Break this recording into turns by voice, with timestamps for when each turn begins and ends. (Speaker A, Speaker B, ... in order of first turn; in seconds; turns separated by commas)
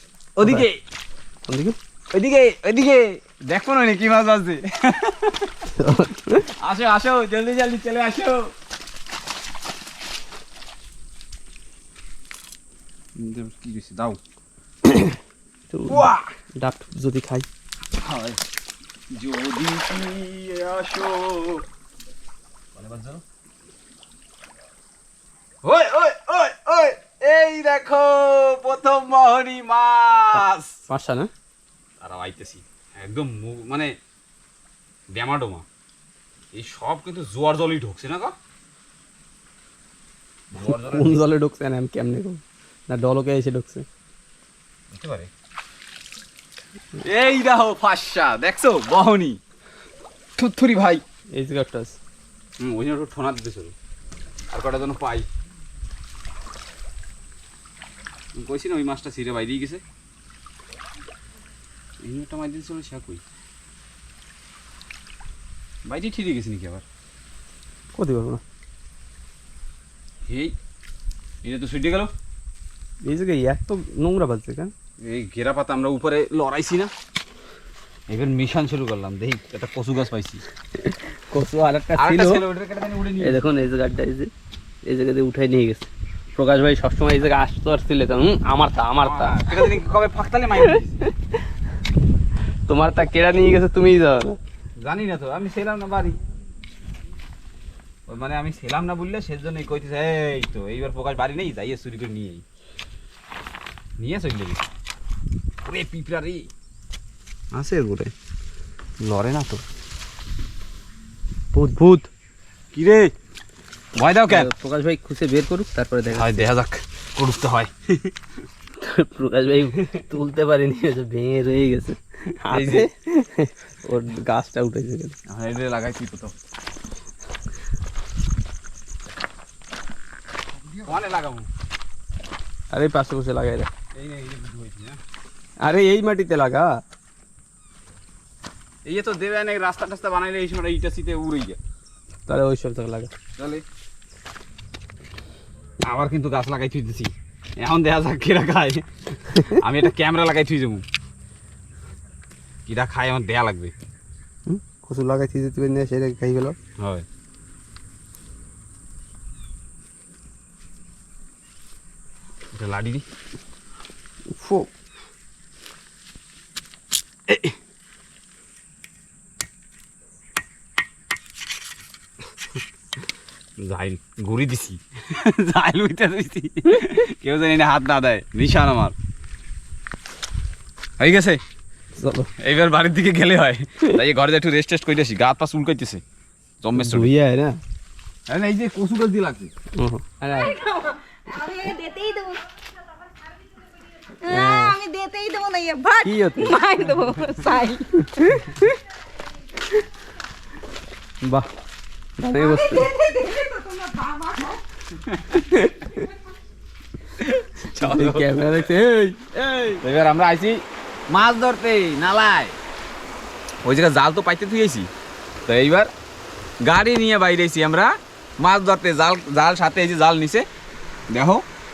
Speaker A: 0.3-0.8, Speaker B: 1.5-1.8, Speaker A: 2.1-5.5, Speaker B: 5.7-6.5, Speaker A: 6.6-8.5, Speaker A: 13.2-14.2, Speaker B: 14.8-15.2, Speaker B: 15.7-17.5, Speaker A: 15.9-16.2, Speaker A: 17.9-18.4, Speaker A: 19.1-21.6, Speaker A: 22.7-23.2, Speaker A: 25.6-30.8, Speaker B: 30.3-31.3, Speaker A: 32.0-33.9, Speaker A: 35.1-35.6, Speaker A: 36.5-38.3, Speaker A: 40.5-41.2, Speaker B: 40.6-43.9, Speaker A: 44.9-45.3, Speaker A: 47.0-49.4, Speaker A: 50.4-51.0, Speaker B: 51.3-52.0, Speaker A: 52.6-53.7, Speaker A: 54.5-55.3, Speaker A: 58.3-59.8, Speaker A: 62.0-63.2, Speaker A: 65.8-66.8, Speaker B: 67.9-68.4, Speaker A: 70.3-70.5, Speaker A: 71.4-72.1, Speaker B: 73.0-74.7, Speaker A: 75.0-76.9, Speaker A: 78.1-80.4, Speaker B: 80.8-82.4, Speaker A: 81.9-83.4, Speaker B: 83.2-84.3, Speaker B: 84.8-89.7, Speaker A: 89.0-91.0, Speaker B: 90.6-91.1, Speaker B: 92.7-94.4, Speaker A: 94.8-96.2, Speaker A: 98.1-102.4, Speaker A: 104.0-104.6, Speaker A: 105.6-106.5, Speaker A: 107.5-108.1, Speaker A: 109.0-109.6, Speaker B: 111.5-112.1, Speaker A: 112.7-113.1, Speaker A: 113.9-114.5, Speaker B: 114.3-116.5, Speaker A: 116.1-118.1, Speaker B: 118.8-125.2, Speaker A: 122.5-122.9, Speaker A: 125.2-126.3, Speaker A: 130.8-131.5, Speaker B: 132.7-133.7, Speaker A: 133.9-135.0, Speaker B: 135.6-136.8, Speaker A: 138.8-141.6, Speaker B: 142.3-143.1, Speaker A: 143.4-143.6, Speaker A: 145.8-150.8, Speaker A: 152.7-153.7, Speaker B: 154.4-156.6, Speaker A: 156.8-157.1, Speaker A: 162.5-163.0, Speaker B: 164.3-164.7, Speaker A: 167.3-167.5, Speaker A: 173.6-178.9, Speaker A: 181.0-181.4, Speaker B: 181.9-182.3, Speaker A: 182.4-186.0, Speaker A: 186.6-187.1, Speaker B: 186.8-187.6, Speaker A: 188.3-189.5, Speaker B: 189.7-190.5, Speaker C: 190.3-192.4, Speaker C: 193.5-198.6, Speaker B: 194.3-194.7, Speaker B: 196.0-196.6, Speaker B: 198.0-198.7, Speaker B: 202.2-202.9, Speaker C: 202.3-204.6, Speaker A: 205.0-205.4, Speaker B: 205.5-206.0, Speaker A: 207.2-208.7, Speaker B: 207.7-209.8, Speaker A: 209.8-212.6, Speaker A: 213.6-214.9, Speaker A: 215.4-215.9, Speaker A: 216.6-220.5, Speaker A: 221.1-221.4